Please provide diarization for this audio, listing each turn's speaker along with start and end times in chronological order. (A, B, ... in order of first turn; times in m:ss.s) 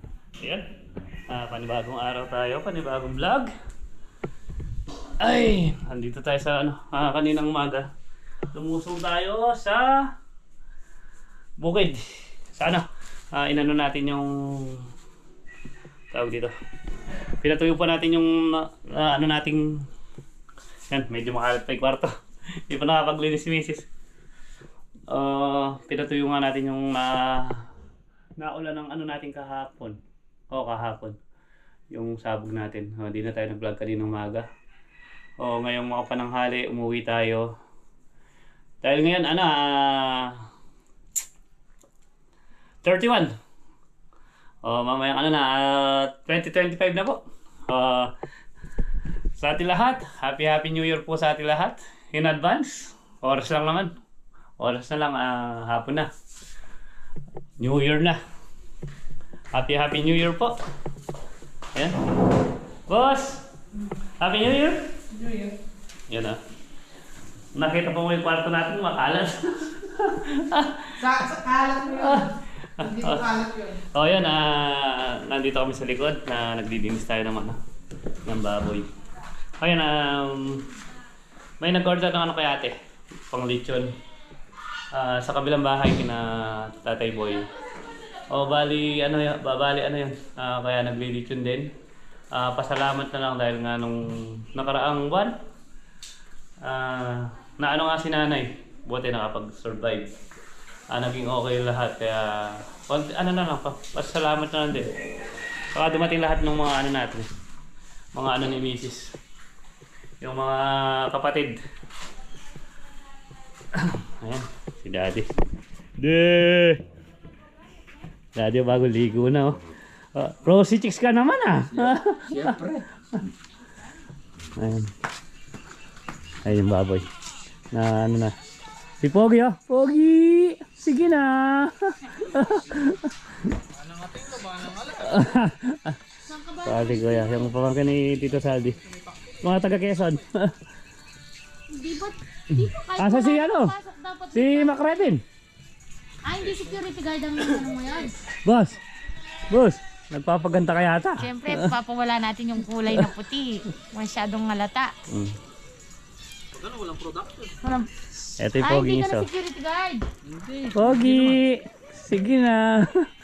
0:00.4-0:00.6 A
0:01.3-0:03.5 A
0:05.2-0:07.9 A
0:08.5-0:10.1 A
0:11.6-0:14.8 A
0:16.1-0:16.5 A
0:17.4-0:19.8 A
0:20.9-0:22.1 A
0:22.7-0:23.9 A
0:25.1-0:27.7 A
0:28.4-0:30.0 A
0:30.5-0:31.2 A
0:31.9-0:34.4 A
0:35.4-0:37.5 A
0:38.8-0:40.4 A
0:42.8-0:43.3 A
0:44.6-0:48.1 A
0:49.4-0:53.9 A
0:54.6-0:56.1 A
0:57.6-0:58.2 A
0:59.5-1:00.6 A
1:02.9-1:03.4 A
1:04.2-1:04.8 A
1:05.2-1:05.5 B
1:06.1-1:06.4 A
1:07.5-1:11.1 A
1:11.0-1:12.1 B
1:11.8-1:17.6 A
1:13.2-1:13.5 B
1:18.2-1:18.9 A
1:19.6-1:20.7 A
1:21.6-1:22.7 A
1:23.3-1:23.9 A
1:24.9-1:27.5 A
1:28.3-1:31.7 A
1:32.3-1:35.4 A
1:36.6-1:40.1 A
1:40.9-1:44.9 A
1:45.7-1:47.3 A
1:48.1-1:49.2 A
1:50.2-1:51.6 A
1:53.7-1:55.3 A
1:56.0-1:56.8 A
1:58.3-1:59.6 A
2:00.1-2:02.7 A
2:01.8-2:02.8 B
2:04.6-2:04.9 A
2:06.4-2:07.1 A
2:07.7-2:08.3 A
2:09.0-2:13.5 A
2:13.8-2:15.1 B
2:14.9-2:16.0 A
2:16.2-2:17.5 C
2:16.6-2:18.8 A
2:19.4-2:20.5 A
2:21.7-2:25.1 C
2:22.5-2:23.7 A
2:24.3-2:25.2 A
2:26.2-2:28.2 C
2:28.4-2:28.8 A
2:29.5-2:31.7 A
2:31.2-2:34.9 C
2:35.1-2:35.4 A
2:36.6-2:37.5 B
2:37.6-2:37.9 C
2:38.4-2:39.3 A
2:38.6-2:40.0 C
2:40.3-2:41.2 B
2:40.7-2:43.1 A